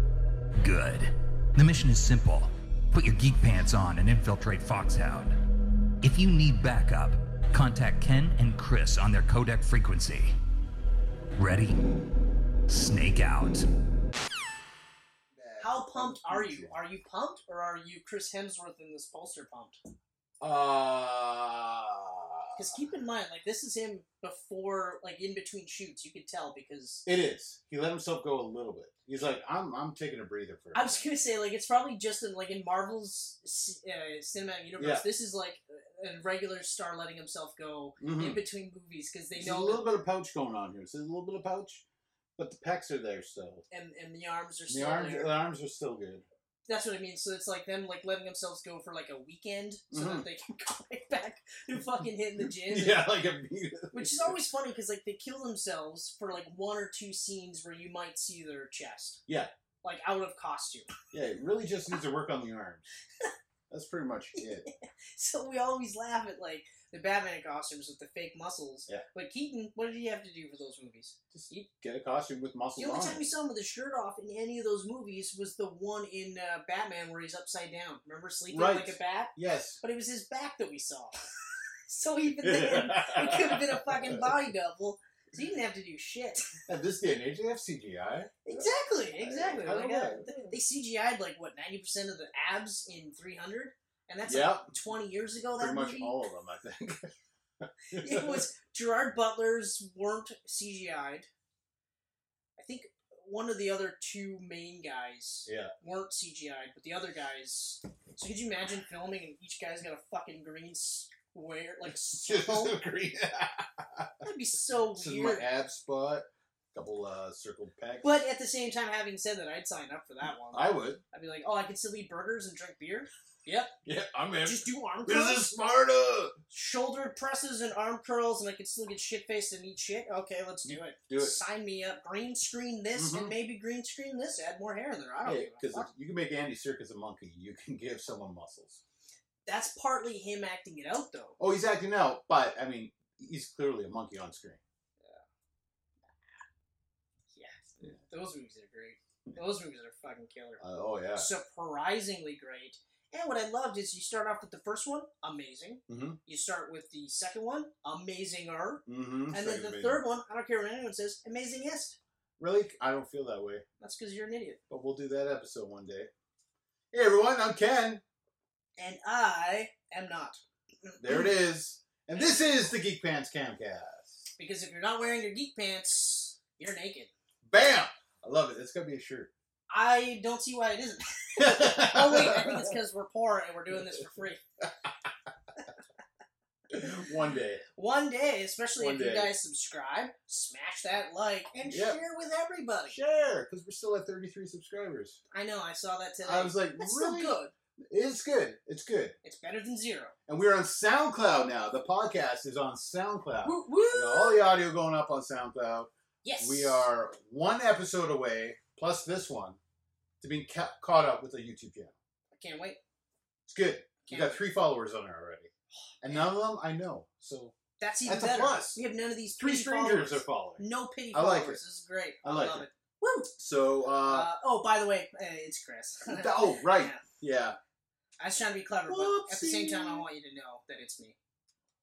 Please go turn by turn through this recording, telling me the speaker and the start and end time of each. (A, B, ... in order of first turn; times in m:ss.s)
0:00.6-0:05.4 A
0:06.0-0:10.3 A
0:11.4-0:11.8 A
0:12.7-0:13.6 A
0:15.3-0:16.8 B
0:15.6-0:19.8 C
0:20.4-0:22.7 B
0:22.5-0:27.0 C
0:27.0-0:30.8 B
0:30.7-0:39.8 C
0:34.8-0:35.0 B
0:38.0-0:38.4 B
0:39.3-0:41.8 B
0:42.4-0:43.6 B
0:43.7-0:45.3 C
0:44.7-0:46.2 B
0:46.7-0:53.1 C
0:49.9-0:50.2 B
0:52.6-0:54.4 B
0:53.9-0:59.2 C
0:59.8-1:00.9 C
1:01.1-1:02.9 B
1:03.7-1:04.6 B
1:04.4-1:11.7 C
1:11.3-1:13.3 B
1:12.8-1:21.1 C
1:18.5-1:19.8 B
1:21.9-1:26.6 C
1:22.4-1:24.3 B
1:26.7-1:30.6 B
1:28.4-1:36.1 C
1:34.2-1:34.7 B
1:35.6-1:38.4 B
1:37.9-1:41.3 C
1:42.6-1:52.8 C
1:45.4-1:45.7 B
1:52.2-1:54.2 B
1:54.2-1:55.5 C
1:54.9-1:58.2 B
1:58.0-2:03.7 C
2:00.5-2:01.0 B
2:03.8-2:06.4 B
2:04.4-2:05.5 C
2:06.5-2:15.9 C
2:10.6-2:11.4 B
2:13.0-2:13.3 B
2:15.2-2:18.8 B
2:19.4-2:21.4 C
2:21.4-2:24.6 B
2:27.3-2:30.6 C
2:30.6-2:31.3 B
2:31.1-2:42.0 C
2:35.9-2:36.2 B
2:38.8-2:40.0 B
2:42.4-2:43.6 B
2:43.8-2:44.6 C
2:44.7-2:46.1 B
2:46.9-2:48.0 B
2:48.8-2:51.3 C
2:51.0-2:54.2 B
2:52.1-2:52.7 C
2:54.4-2:57.1 C
2:57.4-2:59.3 B
2:59.7-3:04.4 C
3:01.4-3:02.7 B
3:06.7-3:07.6 B
3:07.8-3:13.0 C
3:08.8-3:09.3 B
3:11.7-3:12.0 B
3:12.9-3:15.2 B
3:15.3-3:17.5 C
3:16.2-3:17.4 B
3:17.9-3:19.2 B
3:19.2-3:20.1 C
3:20.3-3:29.6 B
3:23.4-3:24.4 C
3:26.2-3:26.9 C
3:30.2-3:31.9 B
3:32.3-3:32.8 C
3:33.5-3:35.5 B
3:34.0-3:34.4 C
3:36.0-3:37.5 B
3:37.8-3:43.3 C
3:38.0-3:38.8 B
3:39.4-3:41.6 B
3:42.2-3:42.6 B
3:43.4-3:44.3 B
3:44.0-3:47.0 C
3:46.1-3:47.6 B
3:48.2-3:51.2 C
3:48.9-3:50.0 B